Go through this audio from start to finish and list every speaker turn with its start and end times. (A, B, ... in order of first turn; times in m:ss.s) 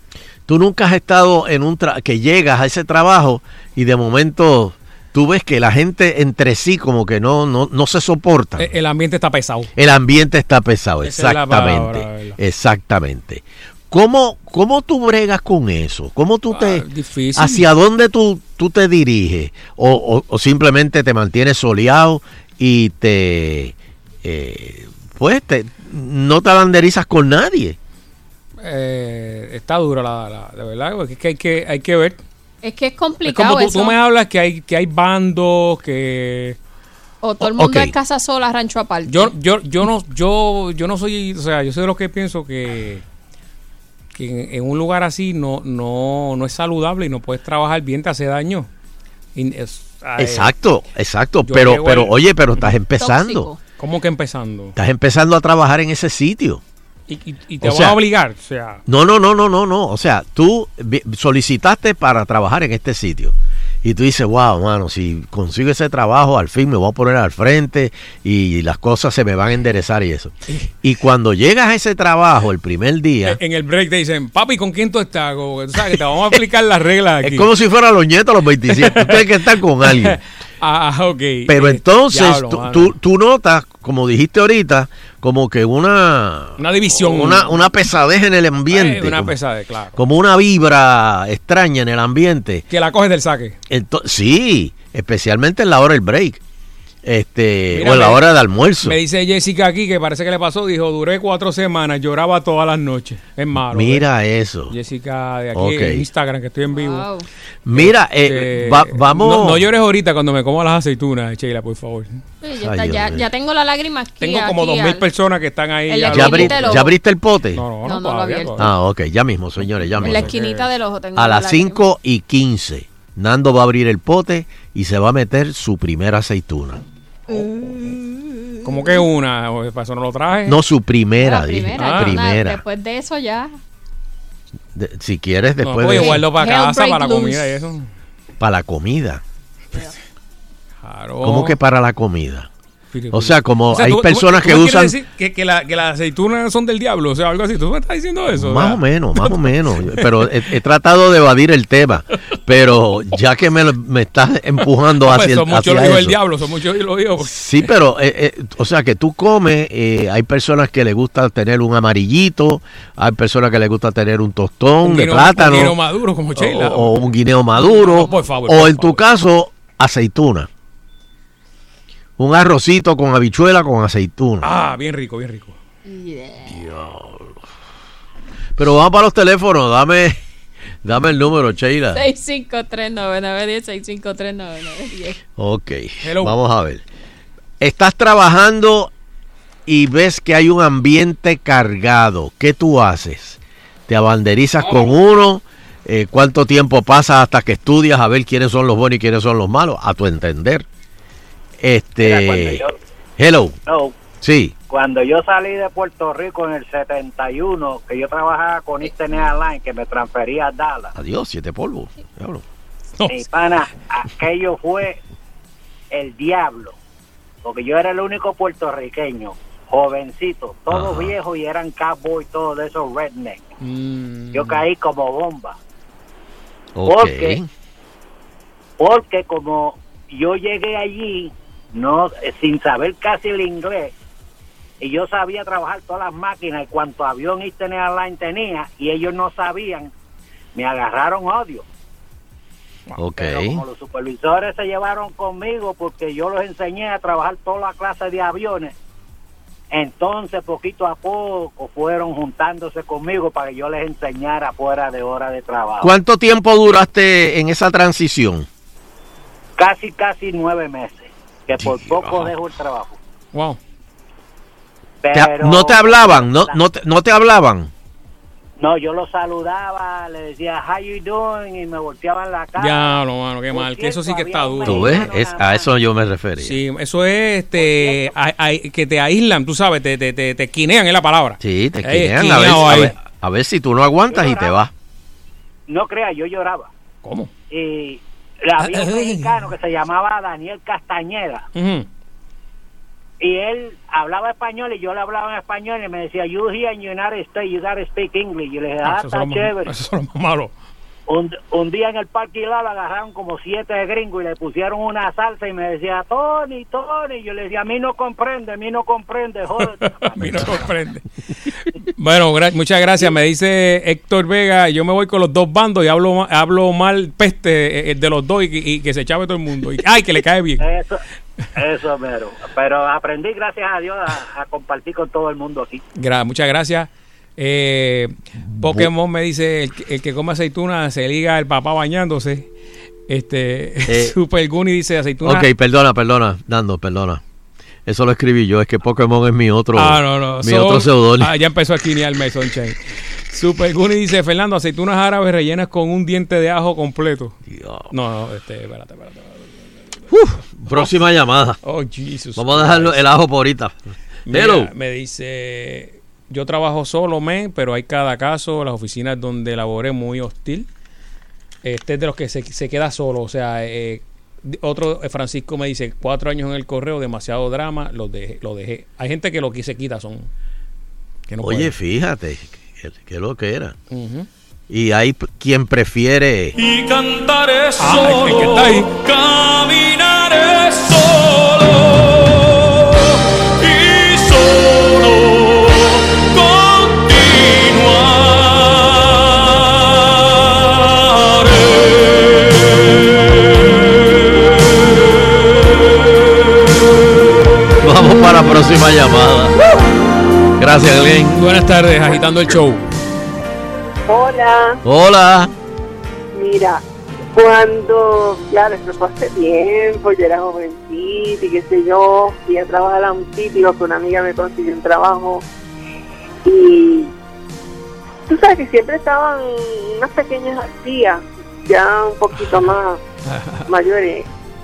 0:00.5-0:08.7 A
0:08.6-0:09.7 B
0:09.8-0:16.8 A
0:11.0-0:12.4 B
0:16.5-0:17.7 B
0:17.4-0:27.8 A
0:28.6-0:32.2 B
0:32.6-0:34.0 C
0:33.2-0:36.6 B
0:37.2-0:39.3 C
0:37.4-0:37.9 A
0:39.1-0:43.0 B
0:44.2-0:48.7 B
0:49.4-0:50.5 B
0:50.2-0:53.5 A
0:51.4-0:52.7 B
0:53.0-0:53.6 C
0:53.8-0:54.8 B
0:54.8-0:56.6 A
0:57.1-0:58.8 B
0:57.6-0:58.0 A
0:58.9-1:13.4 A
1:13.3-1:17.5 B
1:17.2-1:20.2 A
1:18.7-1:19.3 B
1:19.8-1:22.9 B
1:21.5-1:29.4 A
1:26.6-1:27.6 B
1:28.7-1:30.0 B
1:30.0-1:32.6 A
1:32.7-1:33.6 B
1:33.7-1:36.4 A
1:37.0-1:39.0 A
1:37.8-1:38.2 B
1:38.8-1:44.1 B
1:43.7-1:44.7 A
1:44.7-1:47.1 B
1:45.6-1:46.0 A
1:46.7-1:47.3 C
1:47.7-1:49.6 A
1:47.7-1:52.2 B
1:52.4-1:55.0 C
1:52.6-1:53.3 A
1:54.2-1:56.8 B
1:55.9-1:56.9 C
1:56.1-1:57.6 A
1:57.5-1:58.7 B
1:57.8-1:58.6 C
1:58.6-2:00.3 A
1:59.9-2:00.7 B
2:00.0-2:01.8 C
2:01.2-2:06.8 A
2:07.3-2:08.5 C
2:08.6-2:10.6 B
2:10.5-2:12.6 A
2:11.2-2:13.6 C
2:11.8-2:12.2 B
2:14.8-2:16.2 A
2:15.6-2:17.9 B
2:15.9-2:17.5 C
2:18.4-2:19.2 A
2:20.8-2:21.6 B
2:21.2-2:22.5 A
2:22.9-2:29.4 B
2:23.1-2:24.9 A
2:28.3-2:36.2 A
2:29.9-2:30.2 B
2:35.0-2:37.3 B
2:37.2-2:45.8 A
2:44.8-2:47.0 B
2:46.4-2:50.5 A
2:47.6-2:49.0 B
2:52.2-2:54.5 A
2:54.4-2:55.6 B
2:55.9-2:56.6 C
2:56.5-2:57.4 A
2:58.6-3:00.2 A
3:00.8-3:02.0 A
3:01.9-3:05.2 C
3:05.4-3:06.8 A
3:06.0-3:06.4 B
3:07.6-3:08.9 A
3:09.7-3:20.7 A
3:21.6-3:22.6 A
3:22.0-3:22.8 D
3:23.2-3:23.6 A
3:23.7-3:24.0 D
3:24.2-3:24.5 A
3:24.7-3:30.9 D
3:31.0-3:32.4 A
3:33.0-3:33.2 B
3:33.1-3:35.0 D
3:35.9-3:36.8 D
3:37.4-3:43.4 D
3:40.7-3:41.2 A
3:43.6-3:44.6 B
3:44.3-3:45.6 D
3:46.8-3:47.5 A
3:46.9-3:47.4 D
3:48.8-3:53.9 D
3:54.8-3:59.9 D
4:00.6-4:01.6 D
4:03.0-4:03.6 A
4:03.2-4:08.8 D
4:09.7-4:15.9 D
4:15.8-4:18.5 A
4:19.6-4:23.0 D
4:21.6-4:22.3 A
4:23.3-4:23.6 B
4:25.0-4:26.6 D
4:25.1-4:27.7 A
4:28.6-4:35.7 D
4:32.6-4:35.1 B
4:34.6-4:36.6 A
4:36.4-4:43.0 B
4:37.6-4:38.2 D
4:41.4-4:44.7 A
4:44.1-4:44.6 D
4:45.7-4:46.7 D
4:47.0-4:47.3 B
4:47.5-4:51.4 D
4:48.6-4:49.4 B
4:51.6-4:51.9 B
4:53.2-4:59.7 D
4:58.8-5:00.5 B
5:01.1-5:10.5 D
5:09.8-5:11.0 B
5:10.2-5:10.5 A
5:12.0-5:20.7 B
5:20.6-5:21.0 D
5:21.6-5:25.8 D
5:26.0-5:32.5 B
5:28.4-5:28.9 A
5:33.1-5:35.5 B
5:33.9-5:34.1 A
5:35.2-5:37.2 A
5:37.9-5:41.3 A
5:39.8-5:42.8 B
5:43.3-5:47.4 B
5:47.5-5:47.9 A
5:47.9-5:50.9 B
5:50.1-5:51.6 A
5:51.6-5:53.0 B
5:52.4-5:53.7 A
5:54.3-5:54.7 A
5:54.3-6:00.7 B
6:01.6-6:10.3 B
6:11.3-6:11.7 B
6:11.4-6:13.8 A
6:13.9-6:14.3 B
6:14.7-6:16.6 A
6:16.6-6:21.8 E
6:17.8-6:18.9 B
6:23.6-6:25.2 E
6:26.4-6:28.7 E
6:37.8-6:39.5 A
6:40.6-6:41.5 A
6:41.4-6:42.8 B
6:42.1-6:42.6 A
6:44.1-6:44.8 F
6:44.8-6:45.5 A
6:46.4-6:55.4 F
6:56.4-6:57.1 F
6:58.3-7:03.0 F
7:02.3-7:02.7 B
7:03.3-7:03.7 B
7:03.7-7:04.3 F